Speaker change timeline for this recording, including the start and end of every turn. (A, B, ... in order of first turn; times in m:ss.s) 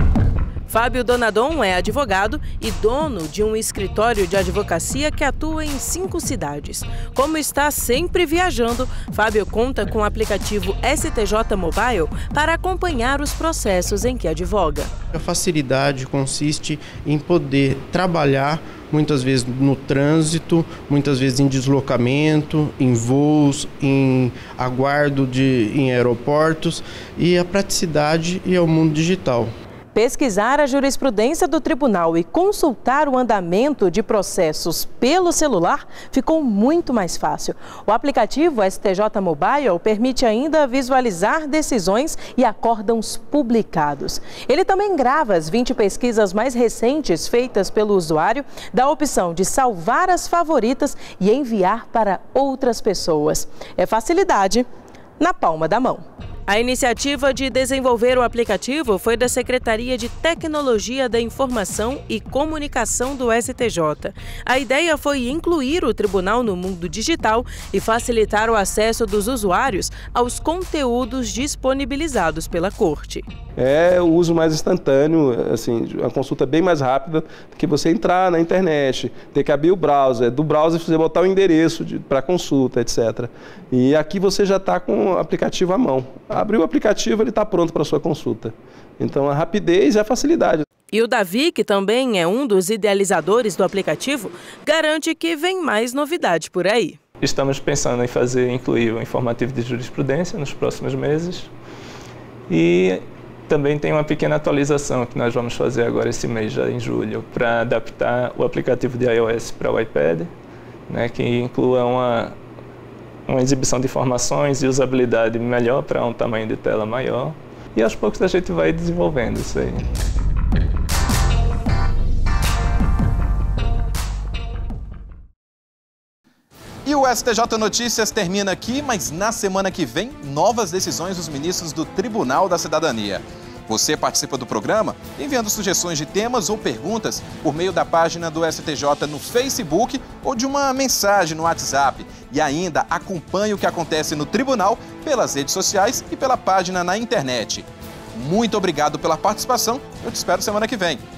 0:00.7-0:14.9 A
0:15.1-0:29.5 B
0:29.9-0:54.7 A
0:55.2-1:13.3 A
1:13.6-1:30.6 C
1:30.9-1:37.0 A
1:37.2-1:41.5 D
1:42.5-1:50.3 D
1:50.9-1:52.3 D
1:53.3-1:59.8 D
2:06.8-2:31.0 E